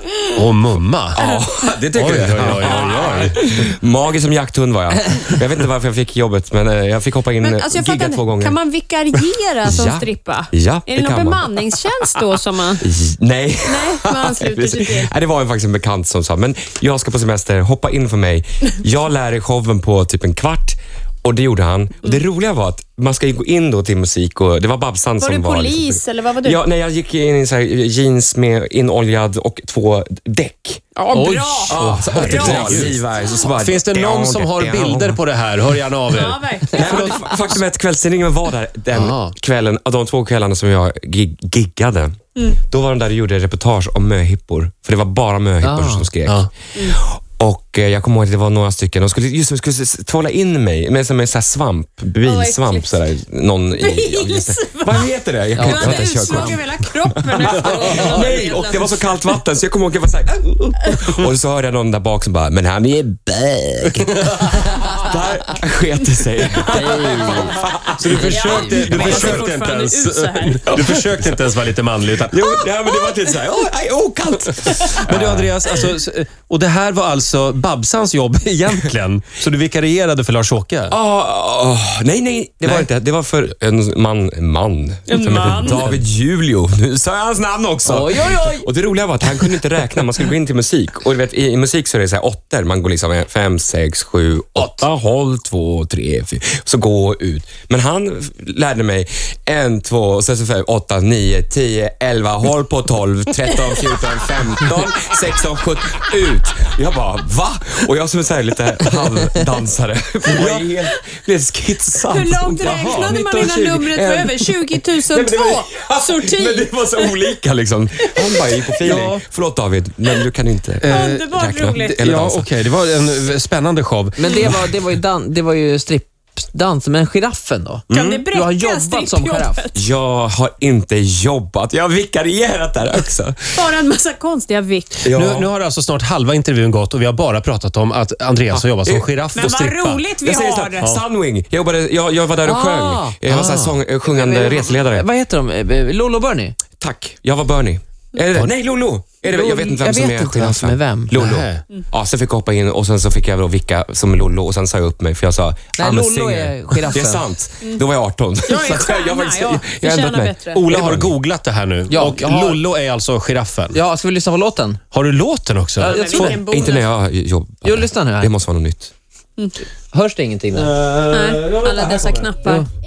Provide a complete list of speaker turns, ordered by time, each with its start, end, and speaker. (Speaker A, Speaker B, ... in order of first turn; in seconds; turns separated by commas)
Speaker A: 0.3-1.2, Speaker B: 1.2-8.6, Speaker A: 1.9-3.6, Speaker C: 7.4-12.9, Speaker B: 9.7-11.6, Speaker B: 12.8-30.8, Speaker C: 13.7-15.1, Speaker C: 25.2-26.6, Speaker C: 31.0-32.7, Speaker A: 31.1-33.0, Speaker B: 31.7-35.2, Speaker A: 33.6-37.4, Speaker C: 36.1-37.2, Speaker B: 36.7-69.5, Speaker A: 38.9-39.3, Speaker D: 45.6-46.1, Speaker C: 52.2-53.0, Speaker C: 53.8-59.2, Speaker D: 55.6-56.6, Speaker D: 57.8-58.2, Speaker D: 66.7-67.5, Speaker A: 68.0-72.4, Speaker C: 68.2-70.8, Speaker D: 68.4-68.7, Speaker B: 70.7-71.3, Speaker B: 72.3-75.7, Speaker A: 75.0-81.0, Speaker B: 80.9-122.5, Speaker C: 85.1-85.8, Speaker D: 87.9-88.7, Speaker D: 94.6-94.9, Speaker A: 110.4-110.7, Speaker C: 112.0-117.4, Speaker A: 112.6-113.1, Speaker C: 118.1-118.3, Speaker A: 118.8-119.2, Speaker A: 120.8-124.7, Speaker C: 120.9-122.0, Speaker D: 124.2-129.6, Speaker B: 127.9-128.3, Speaker C: 127.9-129.8, Speaker B: 129.7-133.7, Speaker C: 133.5-135.0, Speaker B: 135.0-135.5, Speaker A: 135.1-140.1, Speaker B: 138.5-139.1, Speaker C: 139.3-140.9, Speaker B: 140.2-145.1, Speaker D: 142.4-146.6, Speaker B: 146.8-161.2, Speaker D: 149.3-151.1, Speaker A: 151.1-151.6, Speaker D: 155.8-157.3, Speaker C: 158.5-160.7, Speaker A: 160.5-163.8, Speaker D: 161.9-162.6, Speaker D: 163.7-164.8, Speaker A: 164.9-166.4, Speaker D: 165.8-166.4, Speaker C: 165.8-166.9, Speaker B: 166.2-168.9, Speaker D: 167.6-168.3, Speaker D: 169.9-170.7, Speaker A: 170.5-172.3, Speaker C: 171.1-172.7